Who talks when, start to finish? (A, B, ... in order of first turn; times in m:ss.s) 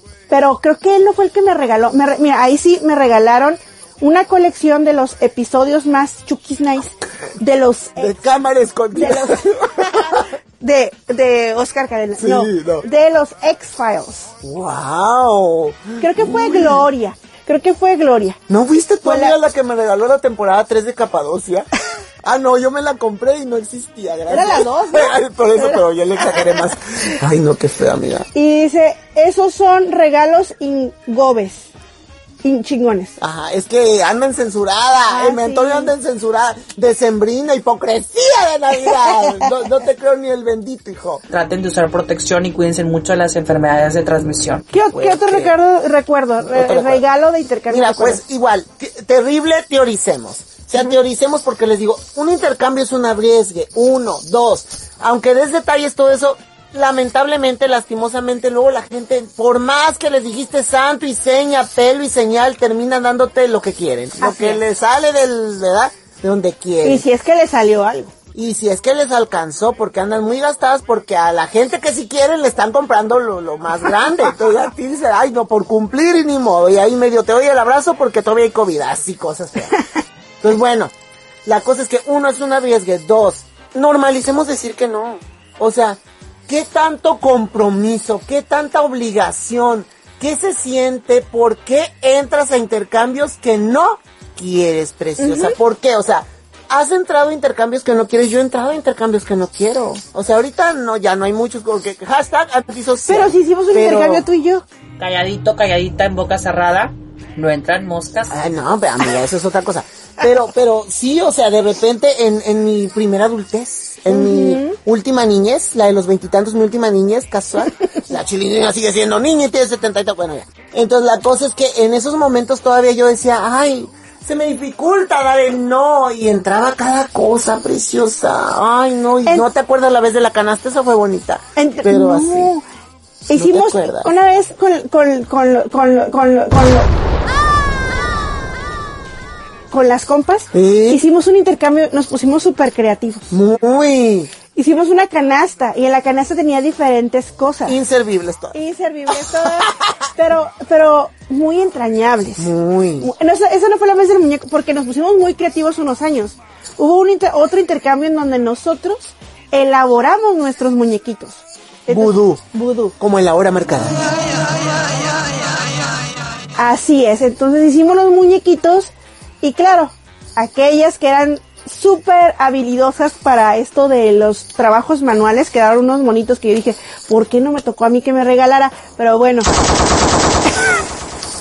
0:00.3-0:08.2 A
0:08.0-0:10.2 B
0:09.0-0:14.3 A
0:12.2-0:12.8 B
0:14.4-0:16.8 B
0:16.0-0:18.4 A
0:18.5-0:21.7 B
0:19.0-0:19.4 A
0:22.2-0:28.3 B
0:24.3-0:25.8 A
0:28.3-0:31.7 A
0:32.4-0:33.2 A
0:33.2-0:41.2 B
0:35.1-0:35.9 A
0:41.3-0:44.6 C
0:44.7-0:48.2 A
0:44.9-0:45.6 B
0:46.4-0:47.0 B
0:47.7-1:07.0 B
1:04.2-1:04.6 A
1:06.8-1:08.1 A
1:08.3-1:19.8 B
1:20.4-1:20.9 B
1:21.4-1:44.3 B
1:35.2-1:35.6 A
1:43.1-1:44.6 A
1:45.0-1:48.4 C
1:48.3-2:12.5 B
1:54.1-1:54.8 A
2:11.6-2:12.6 A
2:13.3-2:16.9 A
2:13.3-2:14.1 B
2:19.7-2:23.3 A
2:20.5-2:21.0 B
2:23.3-2:24.3 B
2:24.5-2:27.8 A
2:27.7-2:28.6 B
2:28.5-2:42.9 A
2:32.4-2:33.1 B
2:41.9-2:42.4 B
2:43.0-2:44.0 B
2:46.6-2:59.5 A